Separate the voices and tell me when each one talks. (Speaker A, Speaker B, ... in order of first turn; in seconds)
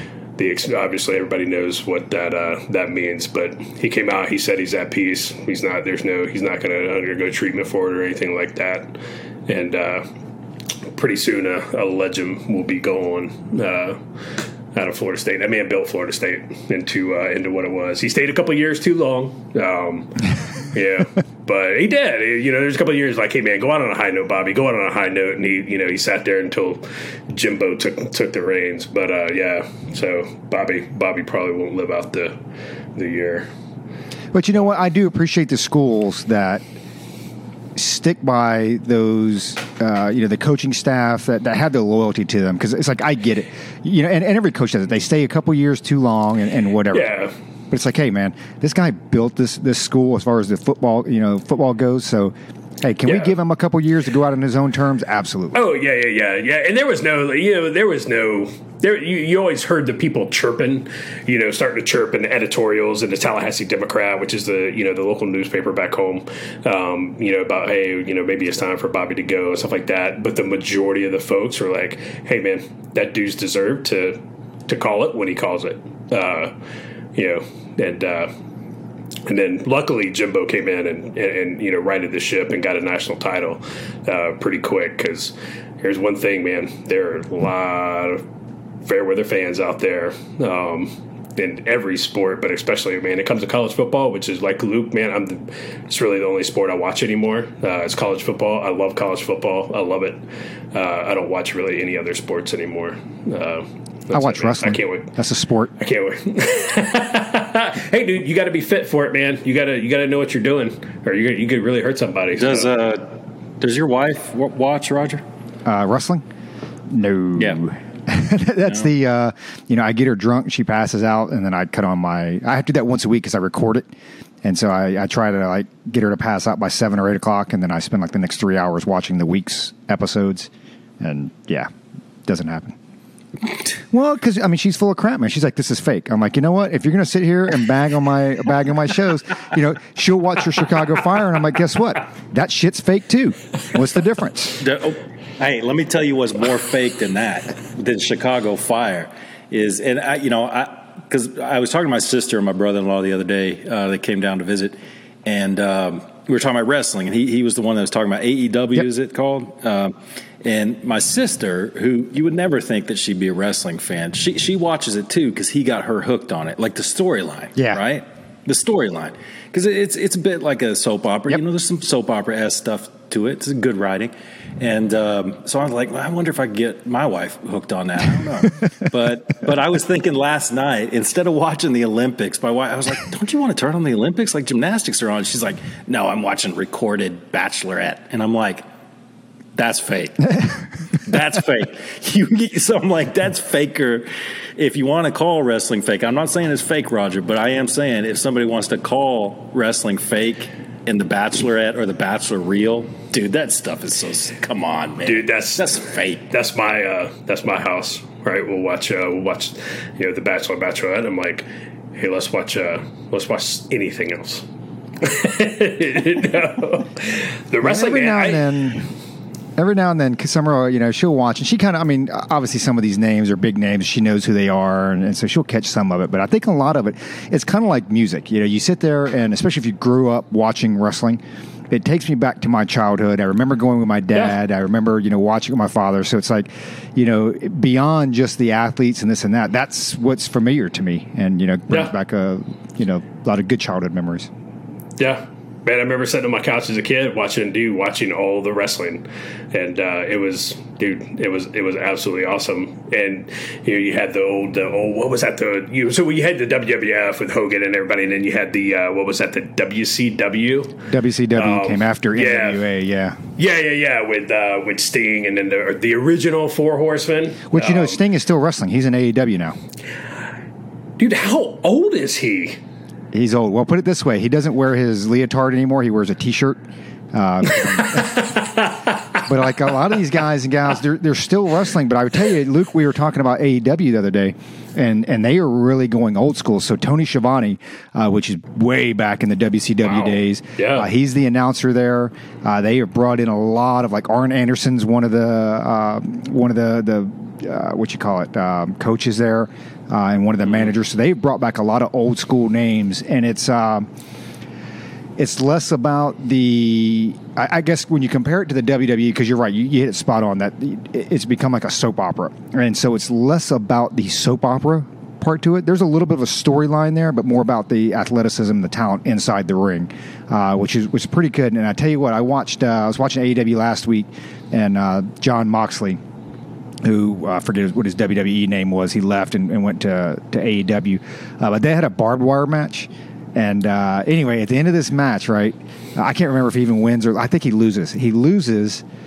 Speaker A: 0.4-10.1, 10.9-14.0, 14.7-32.4, 33.0-33.5, 46.9-47.3, 53.1-53.3, 55.5-76.5, 77.2-78.3, 79.3-88.2, 88.8-100.2, 100.7-105.1, 105.8-112.7, 205.1-214.4, 215.0-218.4, 245.0-260.8, 261.4-262.6, 263.4-268.0, 271.0-272.6, 278.1-278.6, 290.0-290.9
Speaker B: 34.3-36.6, 37.8-47.1, 47.7-55.6, 104.1-105.7, 115.7-116.2, 116.9-123.9, 124.4-130.5, 131.0-131.7, 132.3-132.8, 133.9-144.6, 167.6-167.8, 217.6-218.9, 219.6-244.3, 260.9-263.2, 267.5-269.6, 273.1-276.6, 277.1-278.3, 279.2-303.9, 305.2-326.0, 326.8-338.8
Speaker C: 112.4-115.2, 144.6-188.6, 189.6-206.3